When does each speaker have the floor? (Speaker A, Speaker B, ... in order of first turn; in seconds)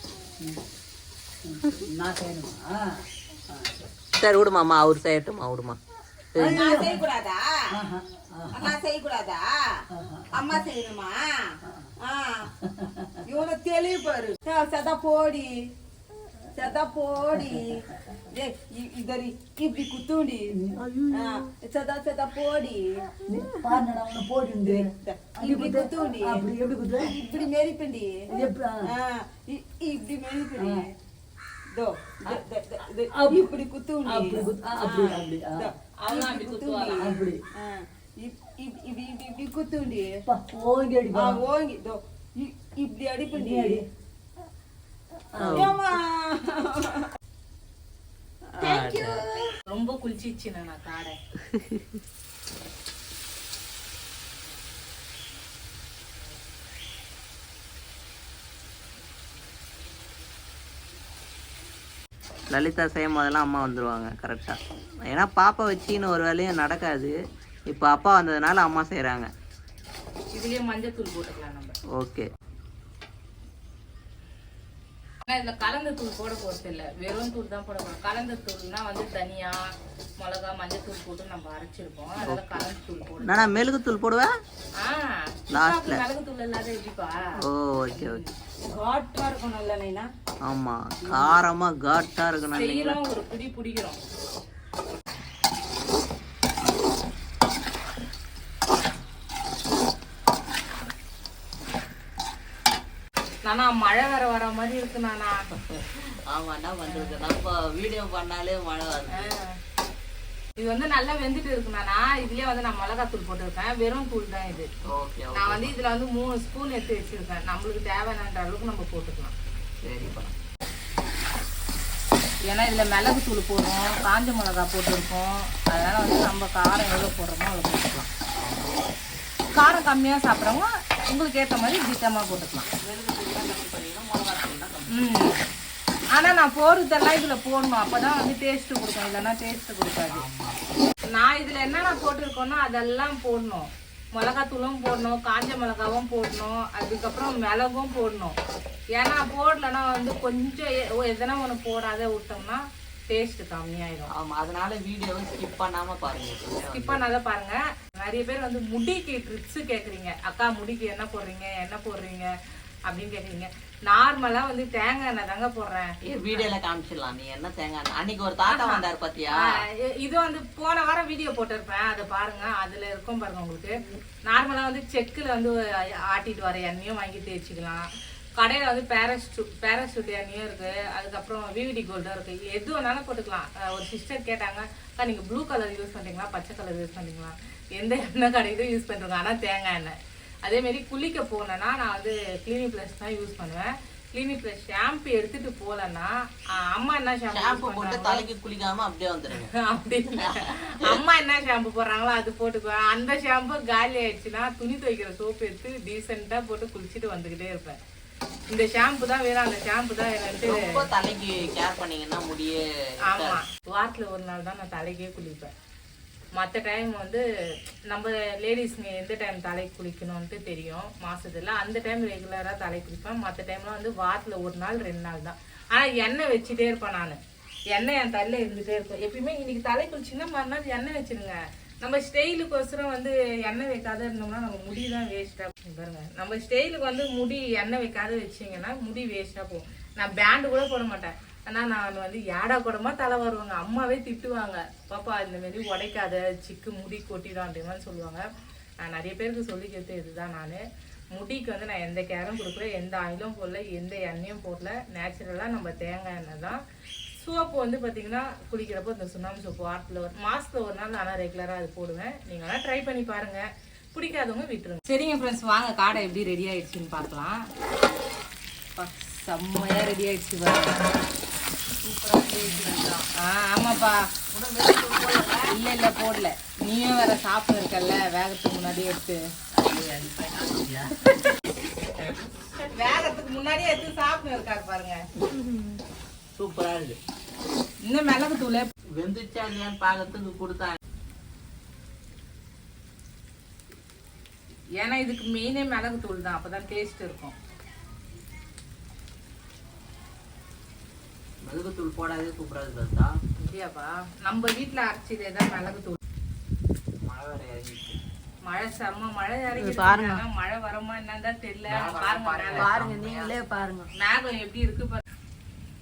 Speaker A: 1.4-3.9, 6.4-7.0, 7.7-8.7, 9.9-10.6, 12.6-13.2, 17.4-18.2, 20.5-21.4, 23.3-27.3, 28.3-28.9, 30.6-30.9, 33.1-33.5, 34.1-35.7, 37.0-37.4, 40.3-41.4, 43.3-43.9, 45.3-45.8, 312.9-313.2
Speaker B: 4.2-5.8, 6.3-6.7, 20.8-21.2, 45.4-45.8, 48.6-49.2, 51.5-51.9, 62.5-67.1, 67.7-69.3, 71.9-72.3, 82.2-82.6, 83.2-84.3, 85.5-86.0, 87.4-88.2, 90.5-93.0, 105.6-109.3, 114.9-115.7, 119.8-120.3, 128.4-128.8, 132.7-135.3, 140.1-140.6, 154.1-157.0, 166.1-169.4, 197.3-199.5, 200.2-200.4, 210.5-213.4, 274.4-274.7, 279.5-281.1, 282.0-282.6, 285.2-285.8, 286.4-287.0, 288.9-290.8, 301.4-303.1, 307.0-308.0, 311.7-313.3
Speaker C: 6.5-7.5, 8.5-9.5, 10.3-11.2, 12.0-12.5, 13.3-15.6, 16.6-20.5, 21.1-22.8, 24.6-28.3, 28.8-30.9, 31.7-40.1, 41.1-43.8, 45.5-47.1, 48.6-49.4, 88.7-90.1, 271.9-273.0, 274.8-275.4, 309.6-310.2, 312.6-313.9
Speaker D: 36.0-37.1, 49.7-51.2, 70.3-71.8, 75.2-79.7, 80.2-83.6, 84.8-87.3, 87.9-88.3, 92.6-94.0, 103.4-105.3, 106.9-107.2, 109.1-109.6, 110.6-114.7, 115.3-119.3, 122.5-128.1, 129.6-132.7, 134.9-135.4, 136.2-140.2, 141.1-148.4, 148.9-154.1, 156.7-162.3, 162.9-166.5, 168.5-168.8, 169.4-198.2, 199.3-207.8, 208.5-210.8, 213.1-215.5, 216.3-217.2, 217.9-227.2, 227.7-248.3, 248.8-256.6, 257.1-267.5, 268.8-271.0, 272.4-274.1, 275.5-279.2, 281.1-281.3, 282.7-285.1, 287.9-288.7, 294.8-297.4, 303.4-306.0, 308.4-312.7, 313.9-315.0